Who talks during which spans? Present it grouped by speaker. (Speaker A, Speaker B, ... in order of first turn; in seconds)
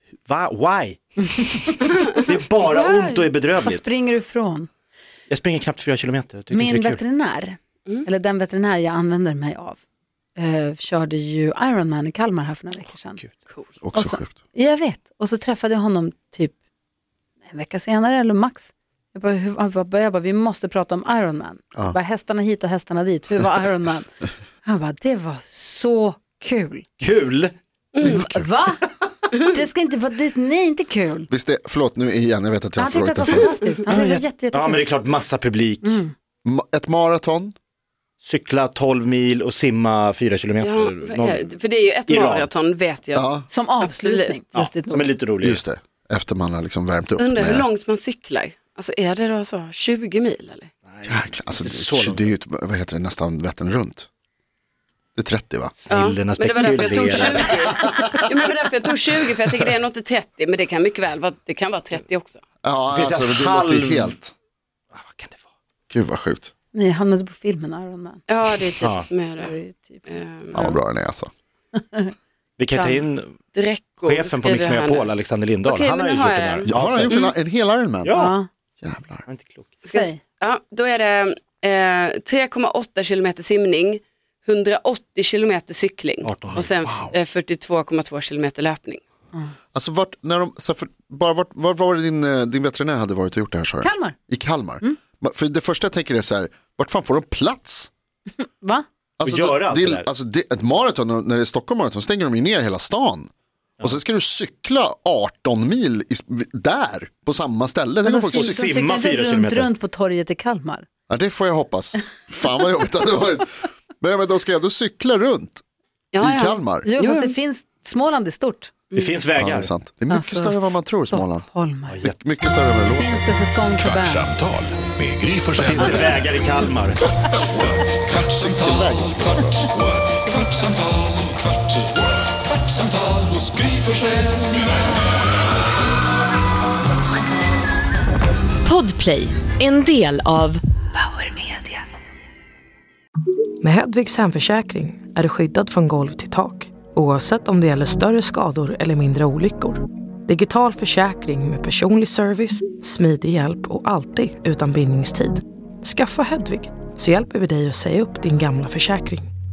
Speaker A: 0.2-3.9, 5.3-7.0, 27.0-27.5, 33.9-36.0, 38.2-41.5, 42.0-42.5, 44.5-45.6, 50.9-52.3, 55.8-57.7, 62.9-64.2, 64.9-65.4, 68.7-69.1, 72.6-73.3, 74.0-77.3, 78.0-78.3, 79.3-79.7, 86.2-86.7, 99.2-100.1, 108.2-109.7, 118.9-119.7, 121.9-122.2, 125.6-127.0
Speaker B: 1.2-2.0, 2.6-4.7, 6.5-9.8, 10.3-13.2, 13.9-16.5, 17.4-26.9, 28.0-31.3, 32.8-34.9, 35.8-36.1, 43.5-45.1, 66.7-68.2, 69.4-70.8, 71.8-72.1, 78.1-78.5, 79.9-80.2, 93.8-94.2, 98.4-98.8, 108.0-110.8, 116.8-118.7, 120.1-122.1, 122.8-124.2
Speaker C: 13.8-14.3, 28.0-28.5, 31.3-33.5, 36.4-37.5, 43.1-43.5, 45.4-47.7, 51.0-54.1, 55.1-55.7, 57.5-58.2, 62.6-64.3, 65.9-66.5, 70.5-71.3, 76.7-78.2, 78.8-79.2, 86.8-87.1, 89.7-97.9, 99.2-103.3, 103.8-108.6, 111.1-115.6, 116.2-116.9, 119.4-121.5, 122.0-123.3, 127.5-129.7
Speaker D: 40.6-43.3, 43.8-44.7, 47.2-50.7, 55.9-62.4, 68.3-69.5, 70.1-70.6, 72.7-73.0, 73.5-75.1, 75.6-77.3, 79.8-89.0, 116.1-117.3
Speaker E: 123.8-126.4, 127.4-128.4, 129.7-131.2, 132.7-133.9
Speaker F: 138.6-140.6
Speaker G: 143.6-159.3